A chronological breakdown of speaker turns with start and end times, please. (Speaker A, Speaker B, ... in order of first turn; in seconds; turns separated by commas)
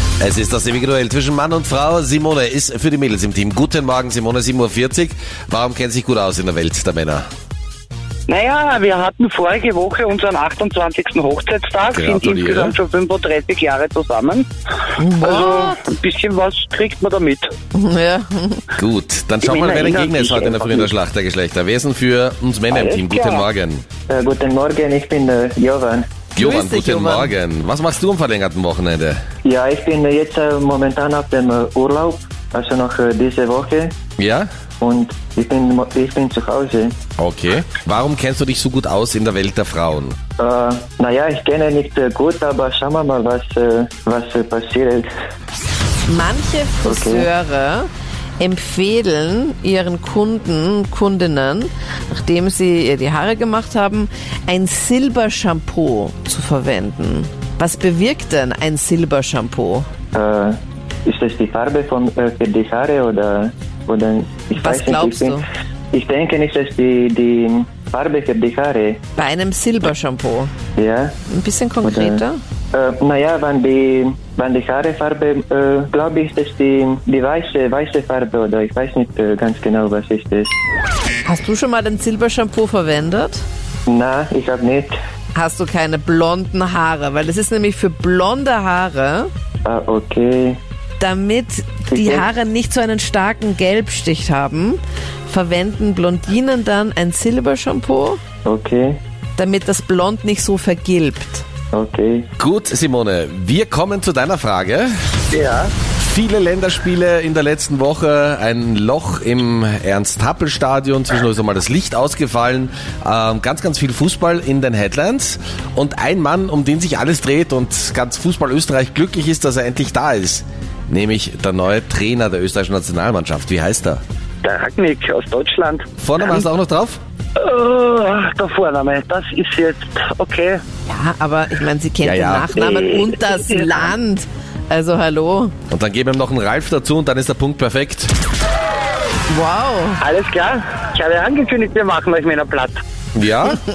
Speaker A: 0.2-7.3, Speaker B: 8.3-14.5, Speaker A: 11.9-12.8, Speaker C: 15.0-15.8, Speaker B: 15.2-17.5, Speaker C: 17.7-18.6, Speaker A: 18.8-23.8, Speaker B: 19.4-20.9, Speaker B: 22.7-23.5, Speaker D: 24.1-26.1, Speaker A: 26.4-29.2, Speaker C: 26.4-27.3, Speaker D: 29.4-33.9, Speaker A: 34.2-34.5, Speaker D: 34.8-36.9, Speaker A: 37.2-40.1, Speaker D: 40.4-45.1, Speaker C: 46.1-59.9, Speaker D: 46.9-47.3, Speaker D: 60.1-65.4, Speaker C: 64.5-65.5, Speaker D: 65.9-69.0, Speaker C: 69.2-70.5, Speaker D: 70.8-71.1, Speaker C: 71.3-72.4, Speaker D: 71.8-72.2, Speaker D: 72.7-80.5, Speaker C: 81.2-83.4, Speaker D: 83.9-85.0, Speaker C: 85.3-89.3, Speaker D: 89.6-90.6, Speaker C: 91.0-98.2, Speaker D: 91.9-92.2, Speaker D: 98.4-99.0, Speaker C: 99.3-101.4, Speaker D: 101.7-102.3, Speaker A: 102.4-104.9, Speaker B: 105.3-105.7, Speaker A: 106.0-124.0, Speaker B: 124.4-126.5, Speaker A: 126.0-127.0, Speaker B: 127.4-130.6, Speaker C: 130.9-135.5, Speaker A: 132.0-132.5, Speaker B: 132.5-133.9, Speaker A: 135.7-138.1, Speaker C: 139.3-140.0, Speaker B: 140.0-142.8, Speaker A: 143.1-143.6